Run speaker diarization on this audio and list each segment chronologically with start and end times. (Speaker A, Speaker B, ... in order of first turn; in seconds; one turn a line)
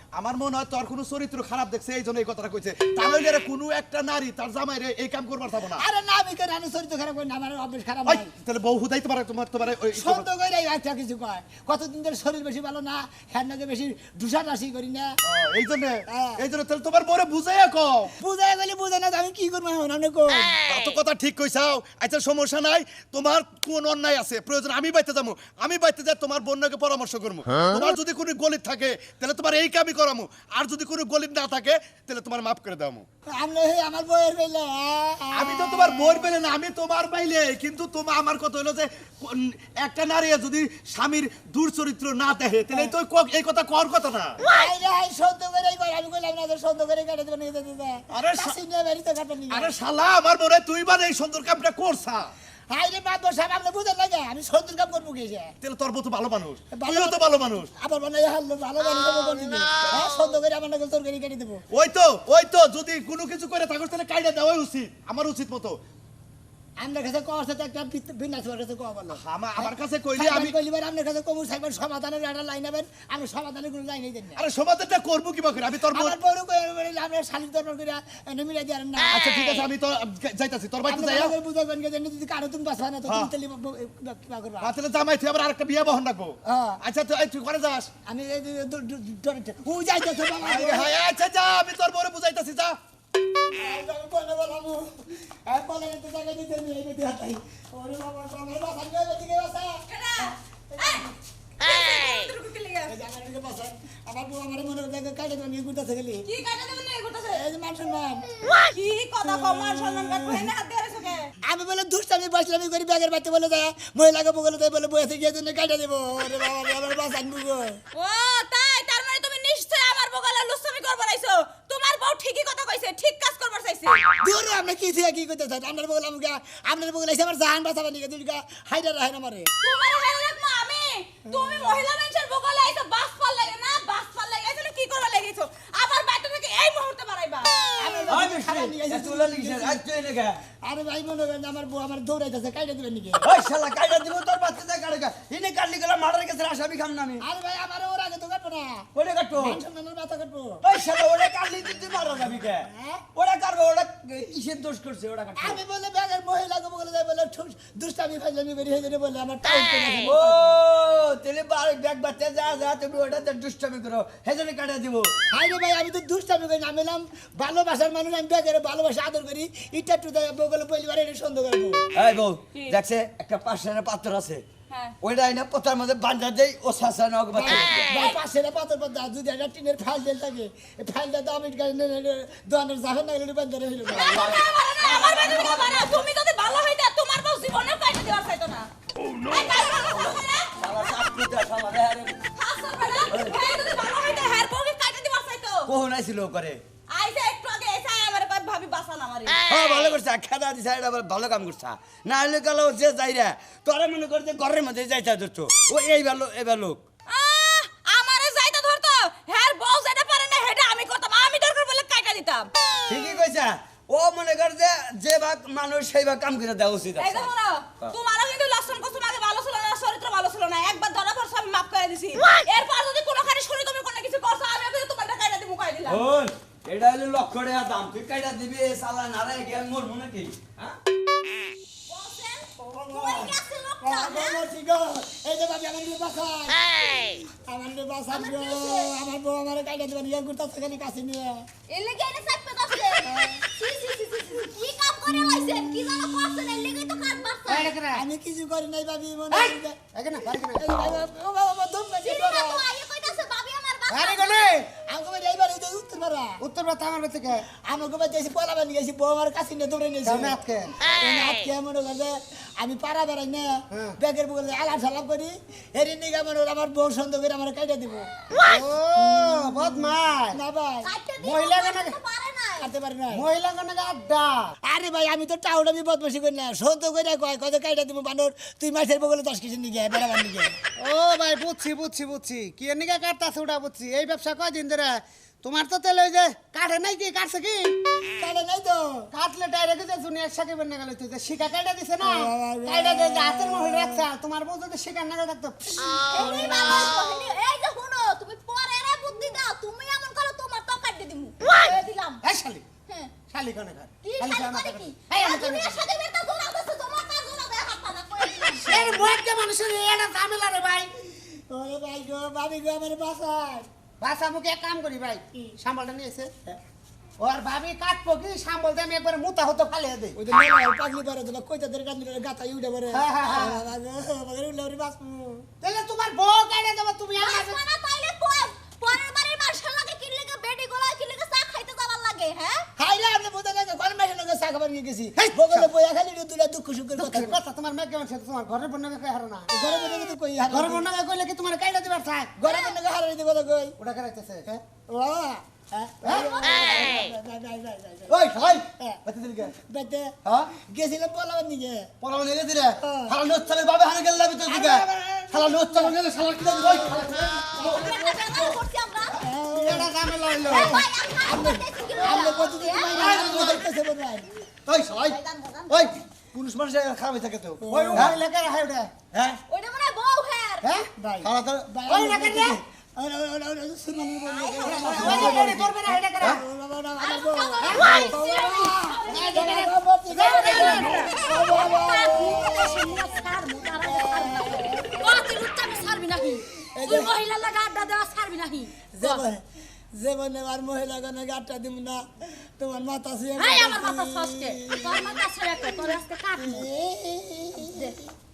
Speaker A: 0.2-5.8
Speaker B: 5.7-8.3
Speaker A: 8.1-10.3
Speaker B: 9.9-15.2
Speaker A: 15.2-18.1
Speaker B: 16.1-16.4
Speaker B: 18.2-20.5
Speaker A: 20.7-33.1
Speaker B: 33.4-36.3
Speaker A: 35.3-44.4
Speaker B: 44.4-49.7
Speaker A: 48.1-48.6
Speaker A: 49.5-52.3
Speaker B: 52.7-55.5
Speaker A: 55.6-57.7
Speaker B: 56.7-61.6
Speaker A: 61.7-65.8
Speaker B: 66.8-74.4
Speaker A: 69.1-70.5
Speaker A: 74.4-76.2
Speaker B: 75.9-79.2
Speaker A: 79.1-81.3
Speaker B: 80.8-84.7
Speaker A: 84.6-87.9
Speaker B: 86.5-86.8
Speaker B: 88.1-91.0
Speaker A: 90.4-92.8
Speaker B: 93.5-94.8
Speaker B: 95.5-99.8
Speaker C: 99.9-101.1
Speaker B: 100.7-101.1
Speaker C: 101.6-102.9
Speaker B: 102.9-106.3
Speaker C: 106.3-107.4
Speaker B: 107.3-108.4
Speaker C: 108.5-111.3
Speaker B: 109.3-110.5
Speaker B: 111.4-117.8
Speaker C: 117.9-124.0
Speaker B: 124.2-129.5
Speaker C: 129.6-137.6
Speaker B: 131.4-131.8
Speaker B: 137.8-139.8
Speaker D: 138.1-140.4
Speaker B: 140.6-143.3
Speaker D: 143.2-147.2
Speaker B: 147.2-150.6
Speaker D: 148.9-149.6
Speaker D: 150.6-155.6
Speaker B: 152.7-153.0
Speaker B: 155.4-160.6
Speaker D: 160.0-165.1
Speaker B: 165.3-171.9
Speaker D: 171.9-174.4
Speaker D: 175.0-177.9
Speaker B: 177.3-184.2
Speaker C: 183.9-188.7
Speaker D: 184.0-186.0
Speaker C: 189.3-190.5
Speaker D: 189.9-192.2
Speaker C: 192.3-195.7
Speaker D: 193.1-193.3
Speaker D: 195.7-196.6
Speaker C: 196.9-199.4
Speaker D: 199.5-206.8
Speaker C: 207.1-212.5
Speaker D: 212.9-217.9
Speaker C: 217.0-226.0
Speaker D: 225.8-230.8
Speaker E: 231.9-234.4
Speaker B: 232.6-241.5
Speaker E: 238.1-238.9
Speaker E: 241.7-247.7
Speaker B: 243.0-243.4
Speaker F: 247.5-248.0
Speaker B: 247.5-249.8
Speaker F: 249.3-250.7
Speaker B: 250.5-252.7
Speaker E: 252.0-254.5
Speaker F: 253.9-254.7
Speaker B: 254.7-256.4
Speaker F: 256.4-257.4
Speaker B: 257.6-260.4
Speaker F: 260.1-260.7
Speaker B: 261.0-268.1
Speaker F: 268.4-270.4
Speaker B: 270.3-270.9
Speaker E: 270.8-272.7
Speaker F: 271.2-272.0
Speaker B: 272.6-273.3
Speaker F: 273.1-274.5
Speaker B: 274.6-280.6
Speaker F: 280.8-287.7
Speaker B: 288.2-289.1
Speaker F: 289.1-296.4
Speaker B: 292.0-294.0
Speaker E: 296.1-302.2
Speaker F: 302.2-302.7
Speaker E: 302.9-303.1
Speaker F: 303.3-305.9
Speaker E: 304.0-308.9
Speaker F: 308.6-310.9
Speaker B: 311.3-313.7
Speaker F: 314.0-316.6
Speaker F: 317.2-320.2
Speaker B: 320.2-325.5
Speaker F: 322.9-323.6
Speaker F: 325.6-327.6
Speaker E: 327.2-332.7
Speaker B: 332.8-337.4
Speaker F: 335.2-335.7
Speaker F: 337.0-339.5
Speaker B: 339.5-340.9
Speaker F: 340.5-342.4
Speaker B: 342.4-343.8
Speaker E: 342.5-342.8
Speaker F: 343.8-344.6
Speaker B: 344.9-351.9
Speaker F: 346.0-346.4
Speaker D: 348.1-348.6
Speaker A: 349.1-349.5
Speaker A: 352.0-352.4
Speaker D: 352.1-354.7
Speaker B: 352.8-353.2
Speaker A: 353.1-358.4
Speaker F: 354.4-357.4
Speaker B: 355.9-357.9
Speaker E: 357.5-359.2
Speaker B: 359.2-364.3
Speaker F: 359.6-360.8
Speaker E: 360.5-363.1
Speaker F: 363.0-363.6
Speaker D: 363.1-363.5
Speaker A: 364.7-365.2
Speaker E: 364.9-365.9
Speaker A: 365.7-367.6
Speaker D: 366.4-368.1
Speaker B: 367.6-368.2
Speaker F: 367.7-369.0
Speaker D: 369.1-369.4
Speaker E: 369.5-370.7
Speaker F: 370.6-372.6
Speaker B: 370.9-383.1
Speaker F: 374.6-376.4
Speaker E: 377.0-377.8
Speaker F: 377.6-378.1
Speaker G: 377.8-379.7
Speaker F: 379.1-381.1
Speaker G: 380.2-389.2
Speaker B: 383.8-385.2
Speaker B: 386.6-387.1
Speaker B: 388.9-389.4
Speaker B: 389.9-395.2
Speaker G: 393.4-396.7
Speaker B: 396.4-398.1